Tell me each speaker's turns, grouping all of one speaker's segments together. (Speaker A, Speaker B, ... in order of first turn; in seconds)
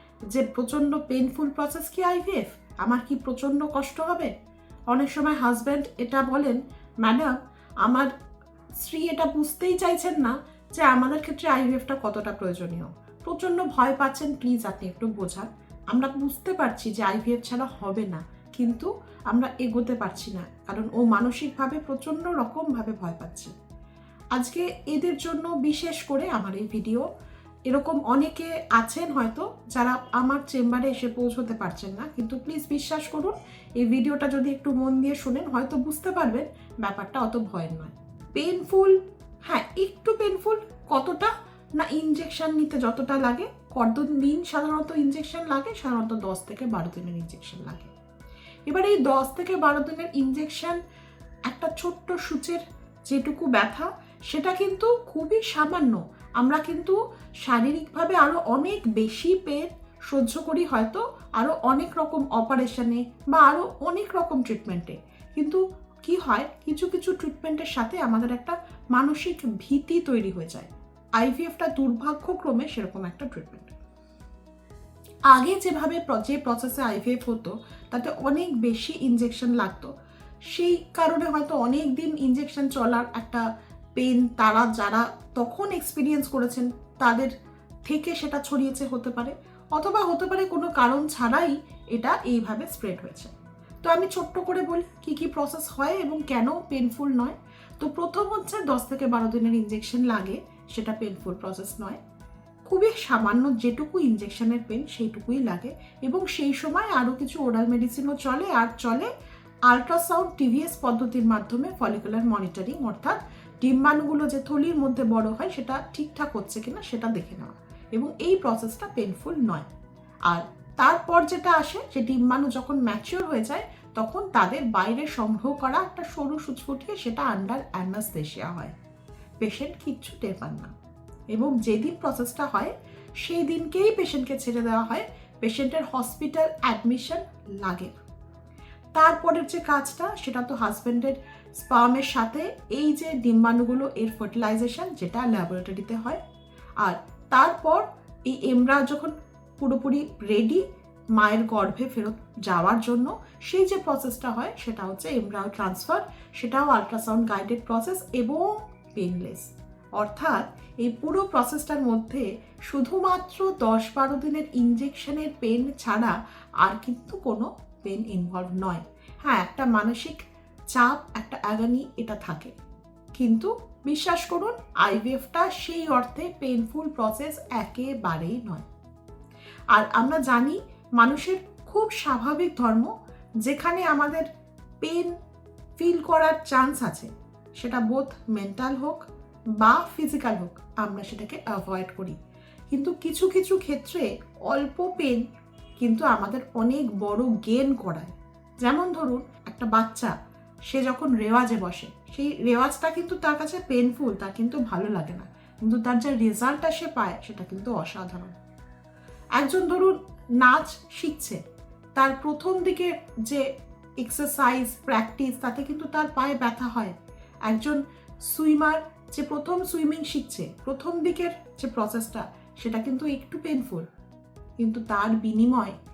Speaker A: 0.3-4.3, 4.9-8.1, 8.8-23.5, 24.3-27.1, 27.7-47.9, 48.7-50.8, 51.5-73.7, 75.3-79.9, 80.5-87.3, 87.9-102.0, 102.7-109.1, 109.7-119.7, 120.3-128.8, 129.4-130.7, 131.3-137.9, 138.9-146.2, 146.8-150.6, 151.2-172.5, 173.2-178.7, 179.7-182.9, 183.4-184.3, 184.8-185.2, 185.8-192.2, 192.7-195.2, 195.8-200.1, 200.7-208.3, 209.4-211.4, 211.9-223.9, 224.6-225.8